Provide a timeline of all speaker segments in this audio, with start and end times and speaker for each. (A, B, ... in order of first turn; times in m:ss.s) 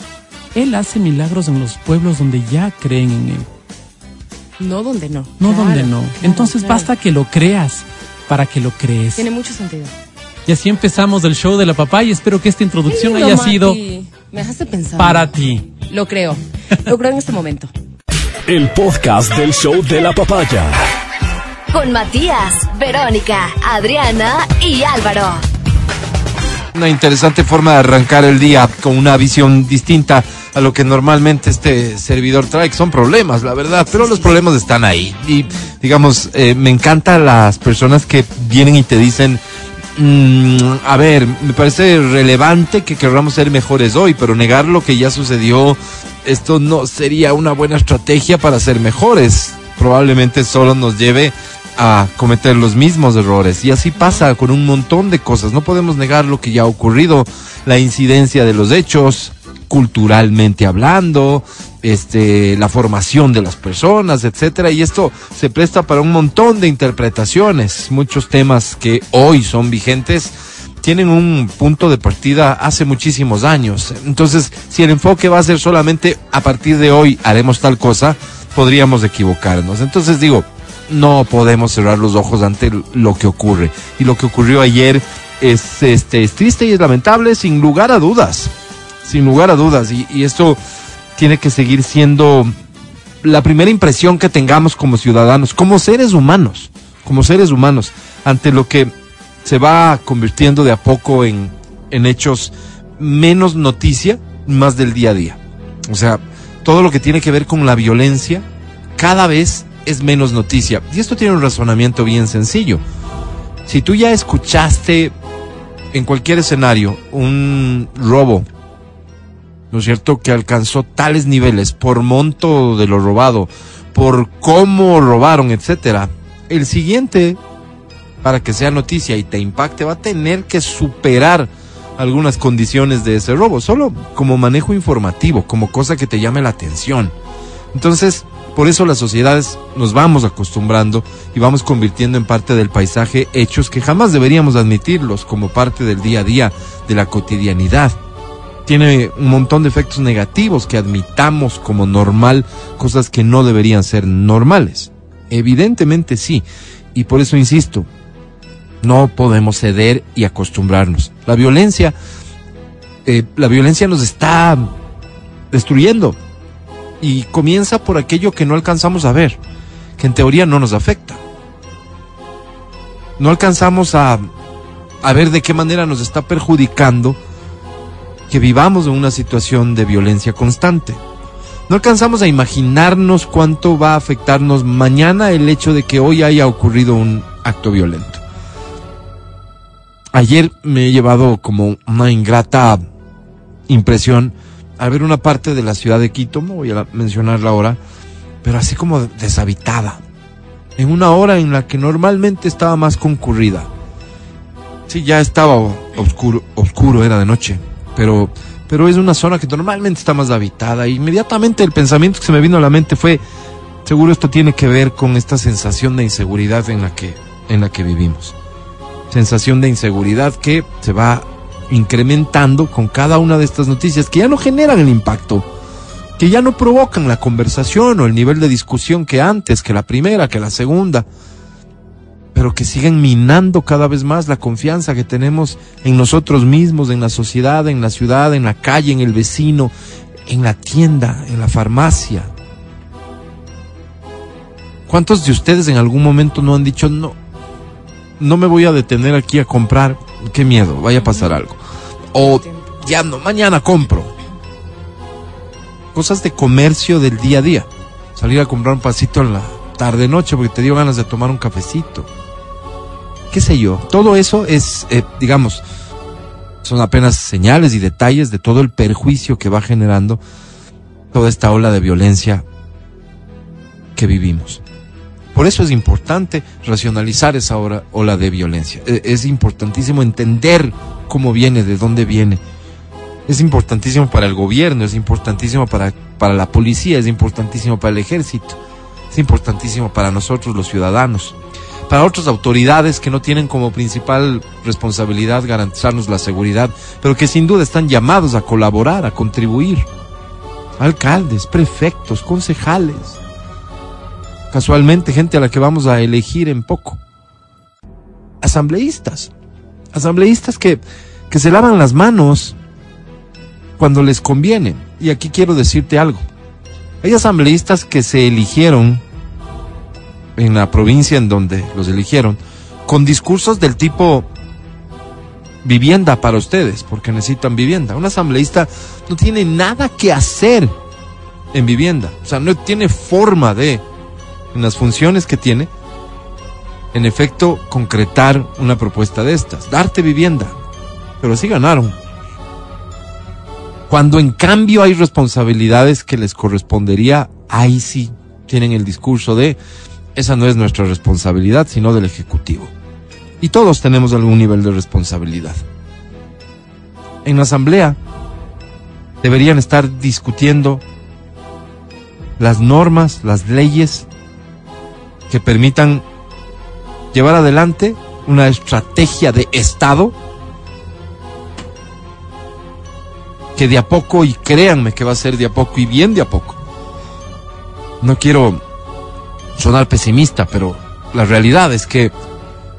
0:00.5-0:03.5 A
0:04.6-0:06.9 B
0:05.4-0:09.3 A
0:09.2-0:09.9 B
0:10.5-0:13.8 A
0:12.9-0:15.3 B
0:15.0-0:15.7 A
0:15.9-0:17.7 B
0:18.5-0:20.8 C
0:21.7-0:25.4 D
0:26.7-0:39.4 E
0:33.9-0:34.4 B
0:40.0-1:28.5 E
0:54.0-0:54.3 B
1:29.0-1:30.6 E
1:31.2-1:32.5 E
1:33.2-1:38.9 E
1:39.4-1:52.8 E
1:53.6-1:55.1 E
1:55.9-1:58.4 E
1:59.7-2:07.4 E
2:08.2-2:17.1 E
2:17.7-2:28.0 E
2:28.6-2:37.9 E
2:38.8-2:41.9 E
2:43.0-2:44.7 E
2:45.5-2:46.2 E
2:47.0-2:49.4 E
2:50.0-2:51.2 E
2:53.2-2:54.3 E
2:55.0-2:57.2 E
2:58.3-3:01.0 E
3:01.7-3:08.2 E
3:10.1-3:12.8 E
3:13.7-3:17.8 E
3:18.4-3:20.0 E
3:20.8-3:23.7 E
3:24.9-3:33.2 E
3:33.8-3:38.3 E
3:39.1-3:45.5 E
3:46.2-3:51.0 E
3:52.3-3:59.7 E
4:00.3-4:02.3 E
4:04.9-4:07.2 E
4:08.2-4:11.6 E
4:11.0-4:11.4 B
4:12.1-4:14.1 E
4:12.2-4:12.7 B
4:15.9-4:22.1 E
4:23.3-4:25.6 E
4:26.6-4:30.2 E
4:31.1-4:32.4 E
4:34.0-4:34.6 E
4:35.3-4:42.4 E
4:43.3-4:48.6 E
4:49.1-4:51.4 E
4:51.9-4:59.9 E
5:00.8-5:03.2 E
5:04.5-5:07.0 E
5:08.4-5:09.3 E
5:09.9-5:12.6 E
5:13.8-5:16.2 E
5:17.0-5:19.0 E
5:20.4-5:24.3 E
5:25.6-5:30.7 E
5:31.5-5:33.8 E
5:34.5-5:35.7 E
5:36.9-5:40.6 E
5:41.2-5:42.0 E
5:43.9-5:49.6 E
5:50.1-5:52.7 E
5:53.4-5:55.6 E
5:57.2-5:58.0 E
5:59.2-6:00.8 E
6:02.4-6:04.1 E
6:05.3-6:06.0 E
6:07.1-6:10.2 E
6:13.6-6:16.6 E
6:18.0-6:18.6 E
6:19.6-6:22.1 E